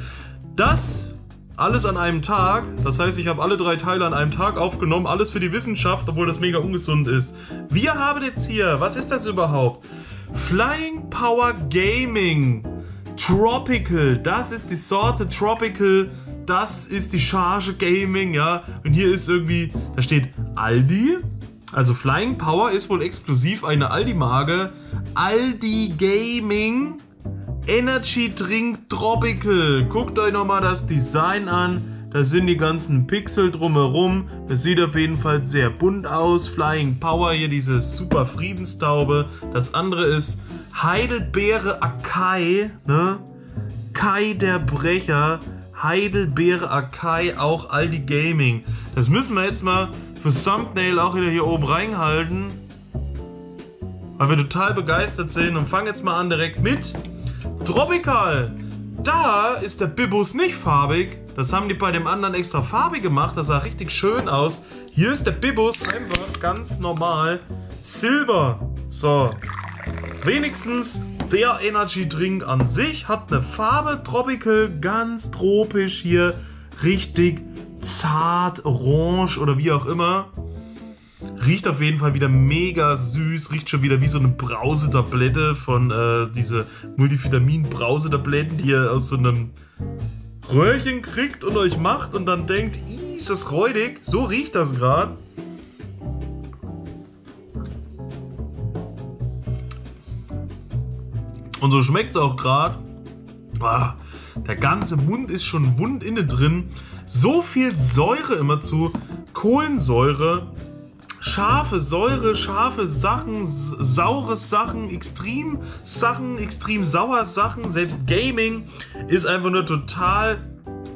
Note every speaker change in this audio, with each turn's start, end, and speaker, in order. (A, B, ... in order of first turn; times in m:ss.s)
0:00.5-0:27.0 A
0:27.6-0:43.3 A
0:43.9-0:52.6 A
0:54.2-0:57.0 A
0:57.6-1:09.4 A
1:10.2-1:20.3 A
1:21.4-1:29.6 A
1:30.4-1:35.2 A
1:41.6-1:42.8 A
1:43.6-1:50.5 A
1:51.2-2:00.4 A